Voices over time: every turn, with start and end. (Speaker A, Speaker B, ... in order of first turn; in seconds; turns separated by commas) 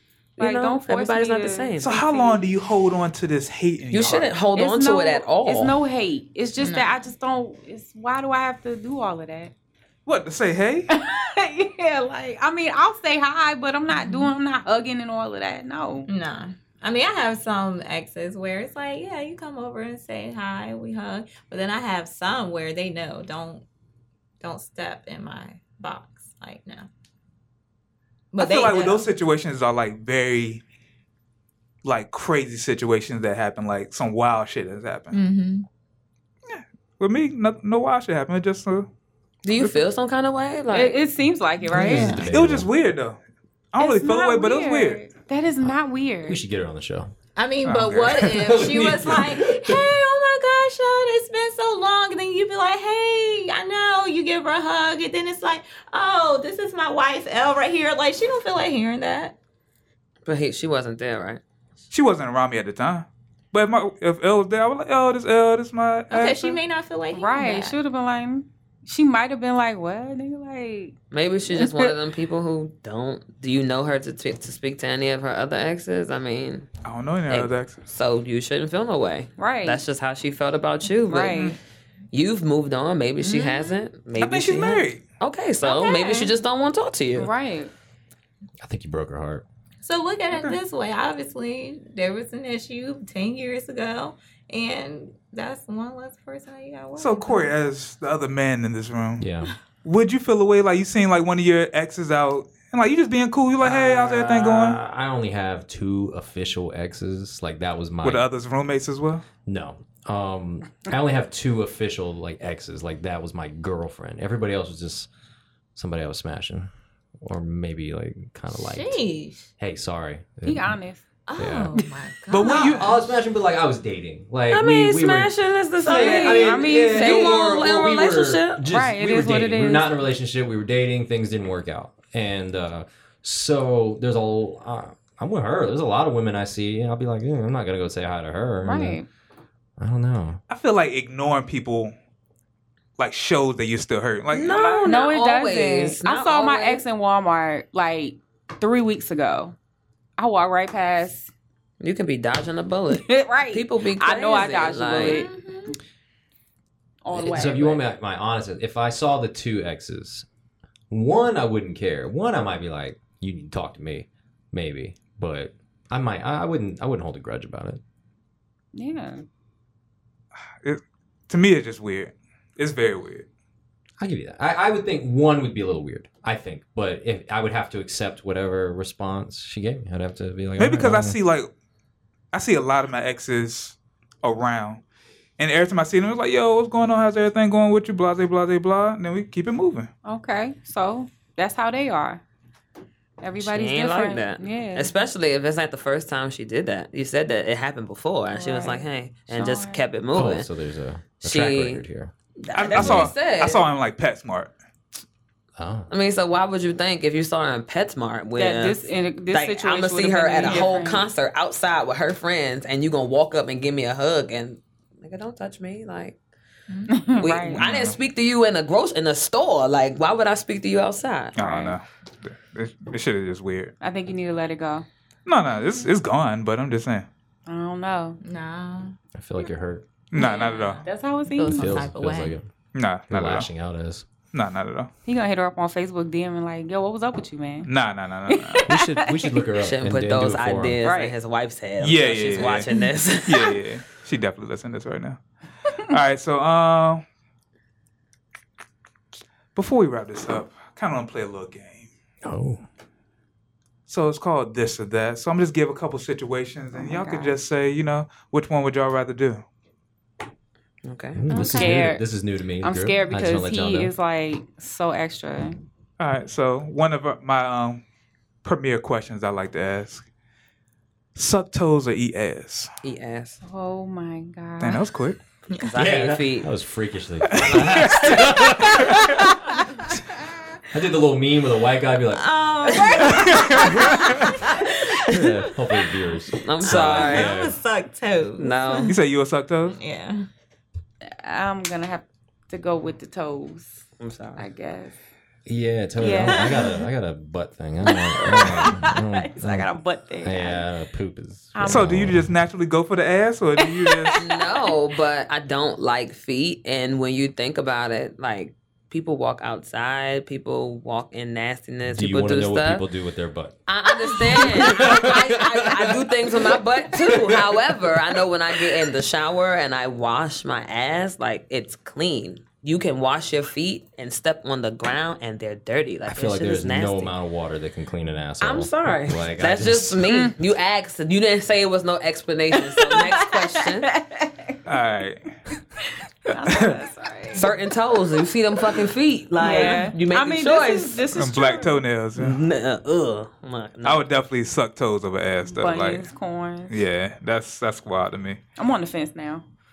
Speaker A: 0.4-2.4, Speaker B: 0.4-1.9, Speaker C: 1.8-4.3, Speaker B: 3.9-5.8, Speaker A: 4.5-9.5, Speaker D: 6.6-7.0, Speaker C: 10.1-10.9, Speaker A: 10.9-16.1, Speaker D: 13.9-14.3, Speaker D: 16.1-23.6, Speaker D: 24.4-26.9, Speaker D: 28.3-29.1, Speaker C: 28.4-30.6, Speaker C: 31.8-35.2, Speaker D: 35.1-35.7, Speaker C: 36.5-38.9, Speaker B: 39.4-41.0, Speaker A: 40.7-42.2, Speaker E: 41.7-42.7, Speaker D: 41.7-42.3, Speaker C: 42.3-43.2, Speaker C: 43.7-45.1, Speaker A: 43.8-46.4, Speaker E: 46.3-47.1, Speaker D: 47.4-59.4, Speaker C: 47.6-48.5, Speaker E: 48.3-49.9, Speaker B: 60.3-61.4, Speaker C: 61.9-66.6, Speaker D: 66.1-67.8, Speaker A: 67.1-71.0, Speaker B: 71.1-76.7, Speaker A: 71.5-71.9, Speaker C: 76.8-77.8, Speaker B: 77.3-81.4, Speaker A: 79.4-79.8, Speaker A: 81.0-81.6, Speaker B: 82.1-87.3, Speaker D: 83.2-83.8, Speaker C: 84.2-85.0, Speaker A: 85.6-86.3, Speaker A: 87.2-87.7, Speaker E: 88.6-89.4, Speaker D: 89.8-97.5, Speaker C: 90.3-90.6, Speaker C: 97.0-99.3, Speaker E: 99.2-99.5, Speaker C: 99.8-104.8, Speaker E: 103.6-108.3, Speaker C: 108.0-109.2, Speaker E: 109.5-115.1, Speaker E: 115.8-119.0, Speaker D: 118.5-119.5, Speaker E: 119.6-120.8, Speaker A: 120.5-121.0, Speaker D: 121.3-123.0, Speaker E: 121.4-121.7, Speaker C: 122.3-122.9, Speaker E: 122.4-139.0, Speaker B: 124.5-128.6, Speaker A: 125.9-127.4, Speaker A: 128.7-130.0, Speaker A: 138.6-139.1, Speaker E: 139.8-140.4, Speaker C: 140.5-141.9, Speaker C: 143.0-144.9, Speaker B: 144.3-146.8, Speaker A: 144.8-149.6, Speaker A: 150.2-151.3, Speaker B: 151.8-155.2, Speaker A: 152.9-155.3, Speaker D: 155.0-155.8, Speaker A: 157.0-157.8, Speaker E: 157.1-160.3, Speaker E: 160.9-167.8, Speaker A: 168.7-169.3, Speaker C: 170.6-173.3, Speaker E: 174.0-181.2, Speaker C: 180.6-181.5, Speaker C: 182.3-184.8, Speaker C: 185.4-189.9, Speaker A: 190.1-192.2, Speaker A: 193.2-194.9, Speaker B: 193.4-200.5, Speaker A: 198.3-199.9, Speaker E: 200.1-202.1, Speaker B: 201.2-201.8, Speaker B: 202.4-203.7, Speaker C: 202.5-204.5, Speaker E: 202.8-203.1, Speaker E: 205.6-205.9, Speaker B: 205.9-216.2, Speaker A: 208.3-211.1, Speaker D: 216.7-217.0, Speaker A: 216.9-217.7, Speaker B: 217.2-221.4, Speaker C: 217.6-218.0, Speaker A: 221.4-221.8, Speaker C: 221.4-223.7, Speaker A: 223.8-224.9, Speaker C: 225.3-227.1, Speaker A: 227.5-228.2, Speaker D: 228.2-229.0, Speaker E: 229.2-229.8, Speaker C: 230.1-230.8, Speaker A: 230.1-231.9, Speaker D: 230.2-232.4, Speaker E: 231.5-232.5, Speaker C: 232.8-233.5, Speaker E: 233.1-234.1, Speaker C: 234.3-234.9, Speaker A: 235.1-237.7, Speaker C: 237.7-238.7, Speaker A: 238.3-239.4, Speaker E: 238.7-240.8, Speaker B: 239.6-243.6, Speaker A: 240.8-241.2, Speaker C: 241.8-242.7, Speaker C: 243.3-245.2, Speaker C: 245.8-247.0, Speaker C: 249.6-251.9, Speaker E: 252.2-252.7, Speaker C: 253.9-259.4, Speaker A: 256.8-257.4, Speaker B: 260.9-261.3, Speaker E: 261.2-263.9, Speaker A: 261.3-262.1, Speaker A: 262.6-265.6, Speaker C: 266.0-267.8, Speaker C: 268.4-270.1, Speaker C: 271.2-272.7, Speaker B: 272.8-273.4, Speaker A: 273.4-274.9, Speaker C: 274.6-275.2, Speaker B: 275.6-276.5, Speaker E: 275.8-279.3, Speaker C: 277.3-279.3, Speaker E: 280.7-282.3, Speaker D: 282.1-285.5, Speaker C: 283.0-284.3, Speaker E: 285.1-287.6, Speaker B: 286.4-287.4, Speaker D: 286.6-289.0, Speaker B: 288.4-288.9, Speaker C: 288.9-289.8, Speaker D: 289.8-290.3, Speaker A: 291.1-293.8, Speaker B: 294.0-294.4, Speaker A: 294.4-294.9, Speaker E: 295.5-302.4, Speaker A: 296.0-296.9, Speaker A: 297.9-300.7, Speaker A: 301.6-301.9, Speaker C: 301.7-304.2, Speaker A: 303.6-304.7, Speaker B: 304.2-312.9, Speaker E: 311.9-316.2, Speaker B: 313.7-327.2, Speaker E: 316.9-318.2, Speaker E: 326.1-330.1, Speaker B: 328.4-333.9, Speaker A: 330.1-330.4, Speaker A: 332.5-334.6, Speaker C: 334.7-335.3, Speaker A: 335.8-337.6, Speaker C: 336.4-336.8, Speaker B: 337.4-341.2, Speaker A: 339.4-341.8, Speaker C: 341.1-342.4, Speaker B: 342.2-344.1, Speaker C: 343.8-346.1, Speaker A: 345.5-346.8, Speaker C: 346.7-348.4, Speaker A: 348.6-349.4